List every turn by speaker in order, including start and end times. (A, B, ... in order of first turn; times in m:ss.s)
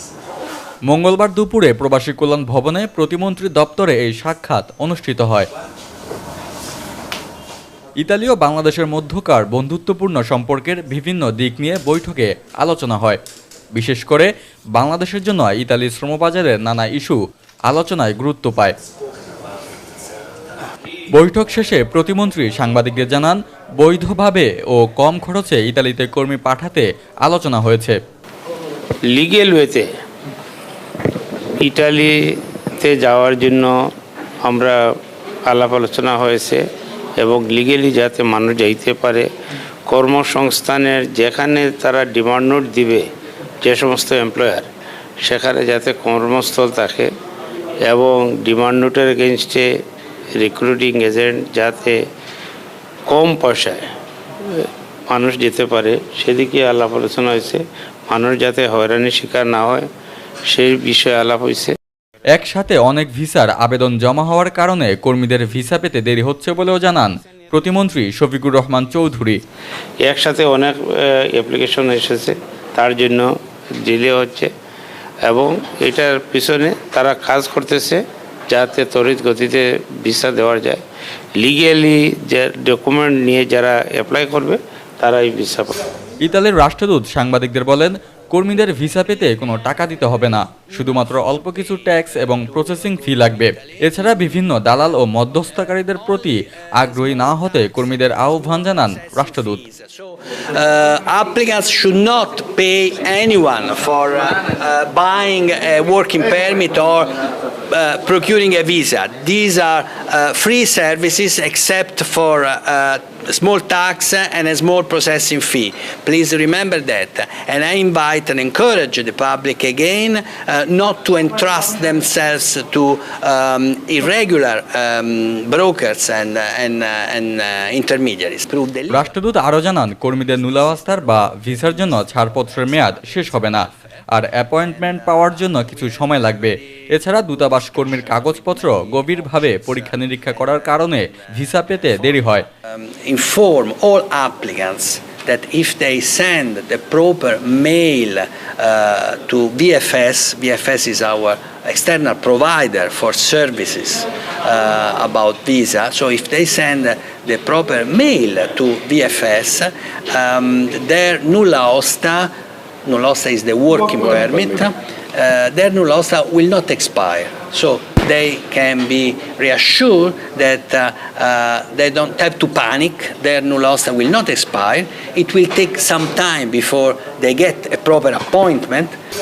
0:00.9-0:05.5 A
0:08.0-0:13.2 A
0:13.7-0:18.7 A
0:21.1-0:28.0 A
0:29.1-0:29.9 B
0:31.6-0:33.7 B
0:34.4-0:34.8 B
0:35.4-0:36.6 B
0:37.2-0:39.3 B
0:39.9-0:43.1 B
0:43.6-0:44.7 B
0:45.2-0:47.1 B
0:47.8-0:49.8 B
0:50.4-0:52.0 B
0:53.0-0:53.9 B
0:54.4-0:59.9 B
1:00.5-1:01.8 B
1:02.3-1:09.4 A
1:10.0-1:14.5 B
1:15.2-1:20.8 B
1:21.4-1:25.8 B
1:26.2-1:39.6 A
1:33.4-1:33.8 C
1:38.6-2:09.0 C
2:08.9-2:22.5 A
2:22.7-2:42.3 C
2:42.8-2:59.0 C